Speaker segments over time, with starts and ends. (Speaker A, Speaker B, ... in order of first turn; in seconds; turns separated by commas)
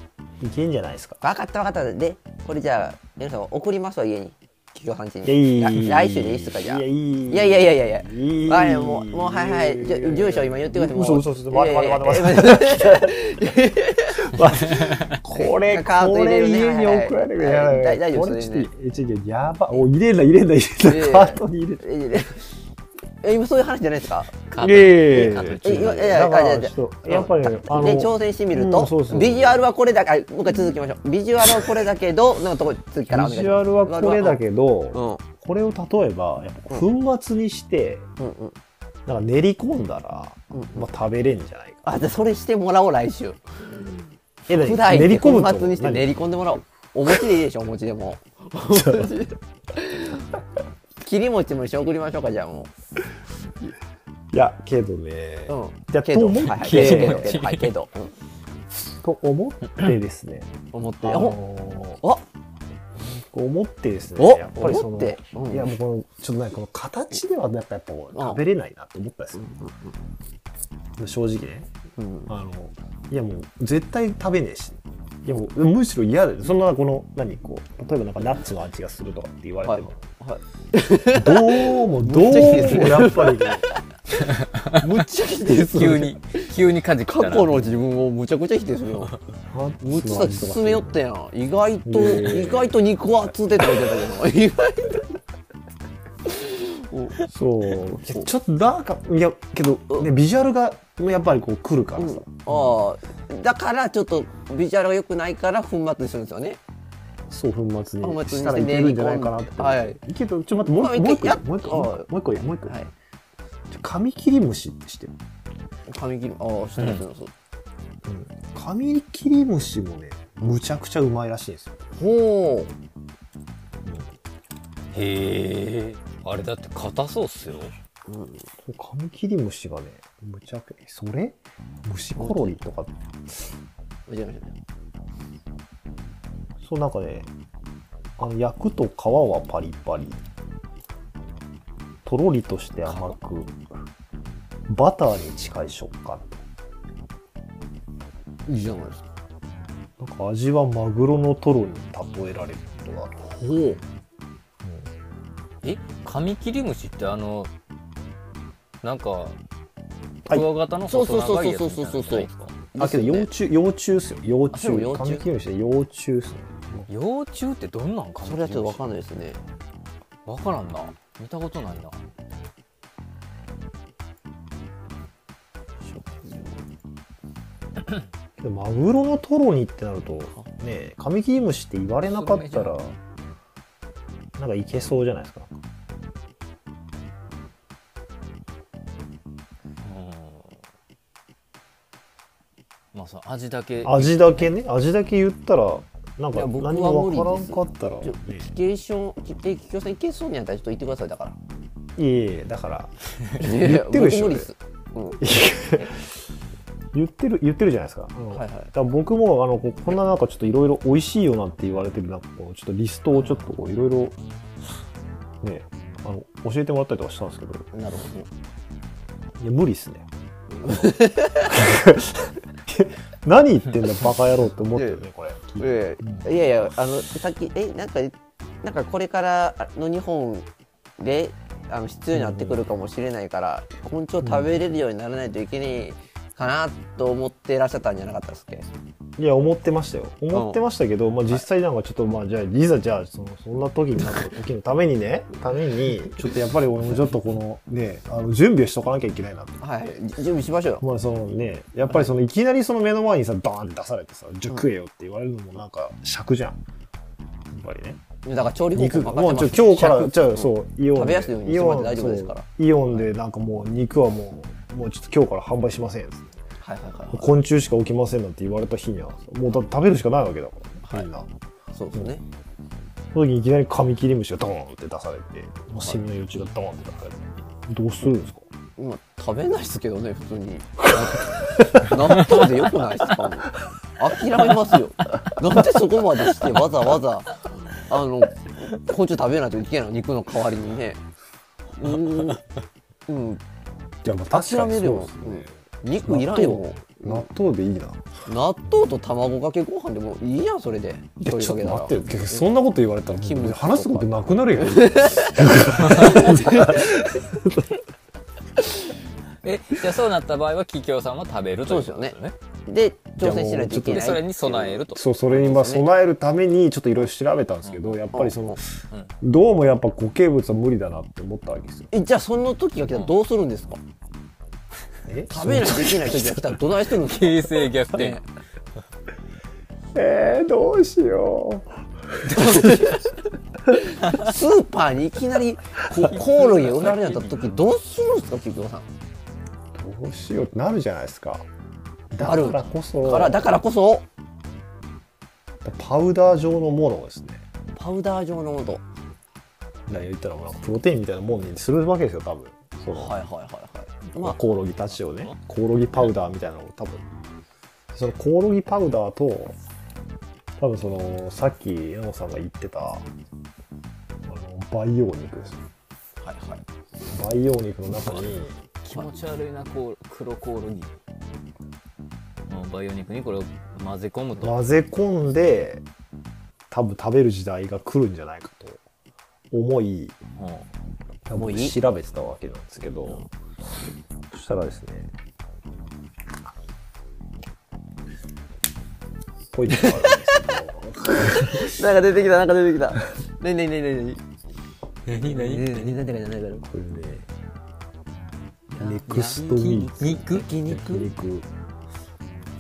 Speaker A: 0.4-1.2, Speaker B: 1.2-14.4, Speaker A: 5.2-13.1, Speaker A: 14.2-21.9, Speaker C: 14.8-15.1, Speaker B: 15.3-18.7, Speaker B: 20.8-22.6, Speaker B: 23.2-24.4, Speaker C: 24.5-26.1, Speaker A: 24.6-29.6, Speaker B: 25.1-34.4, Speaker A: 33.1-38.1, Speaker B: 34.9-35.2, Speaker B: 38.2-38.6, Speaker A: 39.1-41.9, Speaker B: 40.5-40.9, Speaker B: 41.8-43.9, Speaker A: 44.5-46.1, Speaker B: 44.5-50.3, Speaker A: 48.7-49.1, Speaker B: 51.0-52.7, Speaker A: 54.3-57.4, Speaker B: 55.5-58.1, Speaker C: 56.4-57.7, Speaker A: 59.0-62.0, Speaker B: 60.7-61.4, Speaker A: 63.0-69.4, Speaker B: 64.2-65.7, Speaker B: 68.2-68.4, Speaker B: 69.3-70.0, Speaker A: 71.0-71.7, Speaker B: 72.0-72.3, Speaker A: 72.3-80.0, Speaker B: 79.6-83.8, Speaker A: 81.1-83.7, Speaker B: 84.6-86.5, Speaker C: 85.5-87.8, Speaker B: 87.1-89.2, Speaker A: 89.5-91.0, Speaker B: 89.8-95.1, Speaker A: 91.8-92.8, Speaker B: 96.3-97.2, Speaker A: 97.2-102.8, Speaker B: 102.0-106.6, Speaker A: 107.3-112.8, Speaker B: 108.0-110.0, Speaker B: 110.7-112.1, Speaker B: 112.6-112.9, Speaker A: 113.7-115.2, Speaker B: 115.9-117.3, Speaker C: 116.8-117.0, Speaker A: 118.0-121.8, Speaker B: 121.9-122.7, Speaker A: 123.8-124.1, Speaker C: 124.9-127.7, Speaker B: 128.1-128.5, Speaker A: 128.6-133.0, Speaker B: 132.2-132.6, Speaker B: 134.1-134.6, Speaker A: 136.6-137.3, Speaker A: 138.2-140.2, Speaker A: 142.1-143.6, Speaker C: 142.9-143.1, Speaker A: 144.7-146.4, Speaker B: 148.5-149.1, Speaker A: 150.0-153.2, Speaker B: 153.2-153.8, Speaker A: 154.6-155.0, Speaker C: 155.6-157.5, Speaker C: 158.8-159.4, Speaker A: 160.3-160.5, Speaker C: 160.3-162.6, Speaker B: 160.9-163.3, Speaker A: 162.8-166.9, Speaker B: 164.5-165.3, Speaker C: 166.9-168.9, Speaker B: 168.2-169.4, Speaker C: 170.3-172.0, Speaker B: 175.8-176.6, Speaker A: 178.4-183.0, Speaker C: 182.1-182.8, Speaker A: 184.4-185.6, Speaker C: 189.8-190.6, Speaker C: 192.9-194.5, Speaker A: 193.8-198.5, Speaker B: 196.3-201.4, Speaker A: 202.0-204.5, Speaker B: 203.4-205.2, Speaker A: 205.2-206.0, Speaker A: 206.9-214.2, Speaker B: 208.3-208.7, Speaker A: 215.4-217.7, Speaker B: 217.7-218.3, Speaker A: 219.4-220.1, Speaker B: 220.6-221.5, Speaker A: 220.6-226.3, Speaker B: 224.8-225.1, Speaker B: 225.6-238.7, Speaker A: 232.1-232.7, Speaker A: 234.2-234.6, Speaker A: 239.2-249.9, Speaker B: 240.3-240.6, Speaker B: 249.6-250.8, Speaker A: 250.8-256.6, Speaker A: 257.5-258.0, Speaker B: 258.2-262.5, Speaker A: 258.7-266.3, Speaker B: 266.6-267.3, Speaker A: 267.1-271.3, Speaker B: 271.7-272.2, Speaker A: 273.1-278.4, Speaker B: 275.8-276.0, Speaker B: 278.8-291.0, Speaker B: 291.8-292.4, Speaker B: 293.1-293.4, Speaker A: 294.0-298.1, Speaker B: 294.3-297.3, Speaker B: 298.3-302.5, Speaker A: 301.2-307.7, Speaker B: 303.2-305.4, Speaker C: 305.9-306.2, Speaker B: 305.9-307.0, Speaker C: 309.4-312.4, Speaker B: 311.7-315.9, Speaker A: 313.2-314.2, Speaker C: 313.7-315.0, Speaker A: 314.9-318.6, Speaker C: 317.6-318.0, Speaker B: 318.1-318.6, Speaker A: 319.2-321.9, Speaker B: 321.9-323.8, Speaker A: 325.1-326.2, Speaker B: 325.3-328.2, Speaker C: 326.9-328.2, Speaker A: 329.9-332.9, Speaker B: 332.3-333.1, Speaker B: 333.9-338.9, Speaker C: 336.0-337.5, Speaker A: 339.8-341.5, Speaker A: 342.1-343.5, Speaker B: 342.2-344.1, Speaker A: 345.6-347.4, Speaker B: 347.7-348.8, Speaker A: 349.9-353.2, Speaker B: 352.9-355.3, Speaker A: 354.1-357.0, Speaker A: 357.9-359.6, Speaker A: 360.6-363.1, Speaker A: 364.3-365.6, Speaker B: 366.2-366.6, Speaker A: 367.1-368.6, Speaker C: 368.0-371.0, Speaker C: 372.5-374.6, Speaker A: 374.4-375.9, Speaker A: 376.7-378.8, Speaker A: 379.5-380.2, Speaker C: 380.4-380.7, Speaker A: 381.3-383.3, Speaker B: 381.4-381.8, Speaker A: 384.3-385.1, Speaker A: 389.5-391.8, Speaker B: 389.7-390.4, Speaker B: 391.4-394.2, Speaker C: 395.1-395.9, Speaker B: 395.1-396.7, Speaker A: 396.6-397.3, Speaker A: 398.7-401.5, Speaker C: 398.8-400.5, Speaker B: 398.8-401.1